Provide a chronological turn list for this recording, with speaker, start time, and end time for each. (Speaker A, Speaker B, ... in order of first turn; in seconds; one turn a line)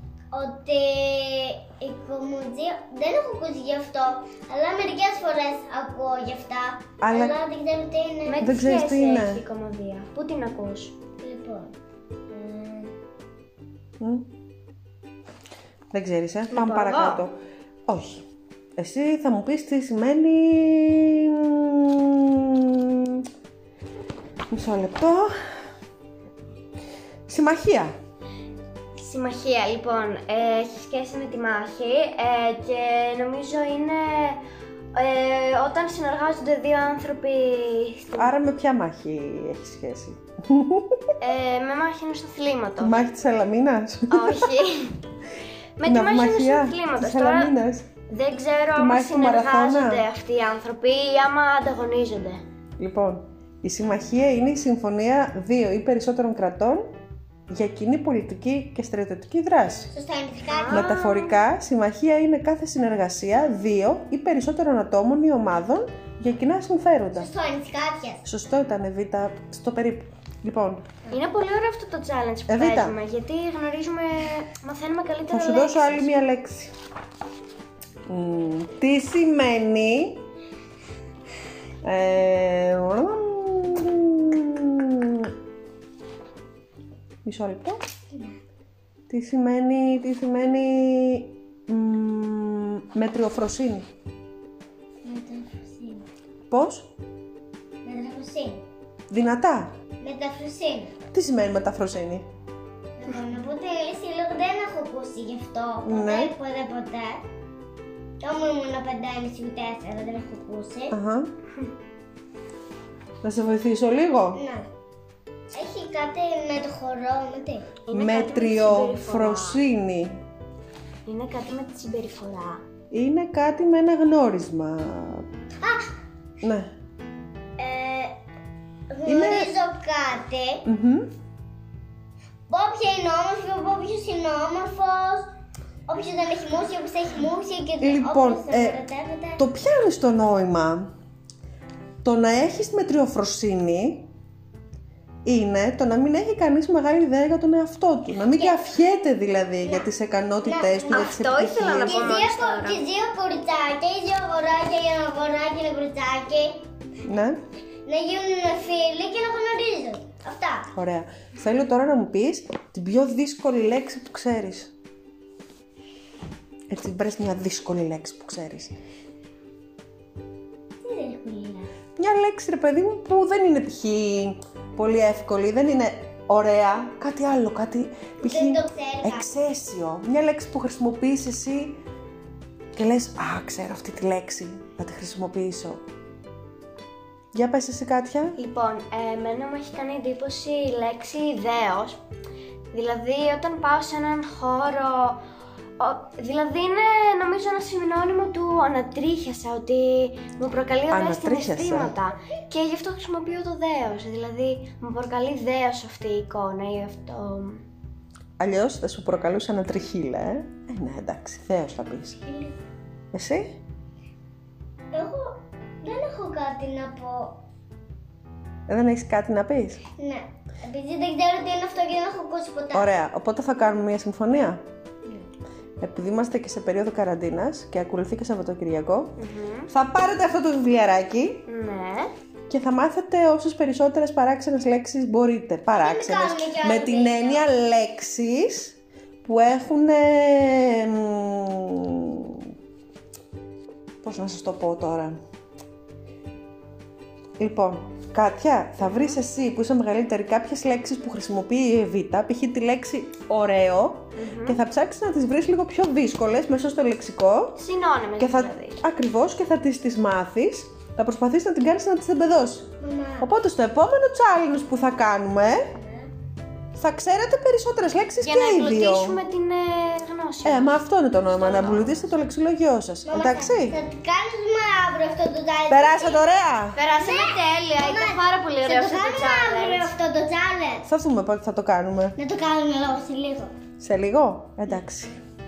Speaker A: 0.3-8.5
Speaker B: 7.0-7.4
Speaker C: 8.2-10.9
Speaker B: 8.4-9.4
Speaker A: 11.2-11.7
Speaker A: 12.3-12.9
Speaker B: 14.0-14.3
Speaker B: 15.9-17.4
Speaker C: 16.5-17.2
Speaker B: 17.9-18.2
Speaker B: 18.8-23.3
Speaker B: 24.5-25.3
Speaker B: 27.3-27.9
Speaker C: 29.0-34.4
Speaker C: 34.9-38.4
Speaker B: 38.2-41.1
Speaker C: 41.2-43.0
Speaker B: 42.8-44.5
Speaker C: 44.1-45.0
Speaker C: 45.8-47.5
Speaker B: 45.8-47.9
Speaker C: 48.1-52.4
Speaker B: 48.7-50.0
Speaker B: 52.8-56.9
Speaker B: 57.5-59.9
Speaker A: 59.9-60.9
Speaker C: 60.5-61.4
Speaker B: 60.7-67.3
Speaker A: 67.1-68.2
Speaker B: 68.2-70.9
Speaker C: 71.1-76.1
Speaker B: 72.5-73.0
Speaker B: 75.3-76.7
Speaker B: 78.1-80.2
Speaker B: 81.8-85.3
Speaker B: 87.2-87.8
Speaker A: 88.1-88.4
Speaker B: 89.1-93.9
Speaker A: 95.0-96.0
Speaker B: 96.5-96.9
Speaker A: 97.8-98.6
Speaker B: 99.1-99.7
Speaker A: 100.0-100.9
Speaker B: 101.1-102.2
Speaker A: 103.0-107.2
Speaker B: 105.8-106.3
Speaker A: 108.2-111.0
Speaker B: 110.9-111.3
Speaker B: 113.2-114.4
Speaker A: 114.3-114.7
Speaker A: 115.5-117.7
Speaker C: 117.9-119.6
Speaker B: 117.9-120.2
Speaker C: 121.1-122.6
Speaker B: 122.9-125.2
Speaker A: 125.6-125.9
Speaker B: 126.4-126.7
Speaker A: 127.6-128.2
Speaker A: 128.9-130.6
Speaker B: 129.1-129.5
Speaker B: 130.7-131.1
Speaker A: 132.5-135.3
Speaker A: 135.9-139.4
Speaker B: 137.8-138.8
Speaker B: 139.4-140.9
Speaker B: 142.0-144.1
Speaker B: 145.2-152.2
Speaker A: 148.3-148.6
Speaker A: 149.6-149.9
Speaker A: 150.4-151.1
Speaker C: 150.9-152.8
Speaker A: 151.8-156.6
Speaker B: 157.0-157.4
Speaker A: 157.8-160.7
Speaker B: 160.7-164.7
Speaker B: 166.7-168.7
Speaker A: 170.8-171.7
Speaker B: 172.0-181.8
Speaker A: 178.2-179.3
Speaker B: 182.7-185.8
Speaker B: 187.3-188.4
Speaker C: 188.4-192.0
Speaker C: 192.7-195.2
Speaker C: 195.8-207.6
Speaker B: 200.9-202.0
Speaker B: 208.4-212.2
Speaker A: 212.2-212.6
Speaker B: 213.1-213.6
Speaker A: 214.9-217.4
Speaker B: 218.7-219.8
Speaker A: 219.9-222.9
Speaker B: 222.7-224.6
Speaker B: 225.8-231.4
Speaker C: 229.2-229.7
Speaker C: 231.5-232.1
Speaker B: 232.5-242.5
Speaker A: 235.8-237.5
Speaker B: 244.0-245.2
Speaker B: 247.4-257.6
Speaker C: 248.8-249.2
Speaker C: 254.2-254.6
Speaker C: 257.6-258.8
Speaker B: 258.2-265.7
Speaker A: 262.8-263.3
Speaker A: 265.7-266.1
Speaker B: 266.8-269.2
Speaker C: 268.2-272.1
Speaker B: 270.4-273.8
Speaker A: 273.1-276.3
Speaker B: 275.7-276.8
Speaker C: 276.8-279.9
Speaker A: 277.0-280.9
Speaker B: 280.9-282.2
Speaker A: 282.2-283.5
Speaker B: 283.8-285.2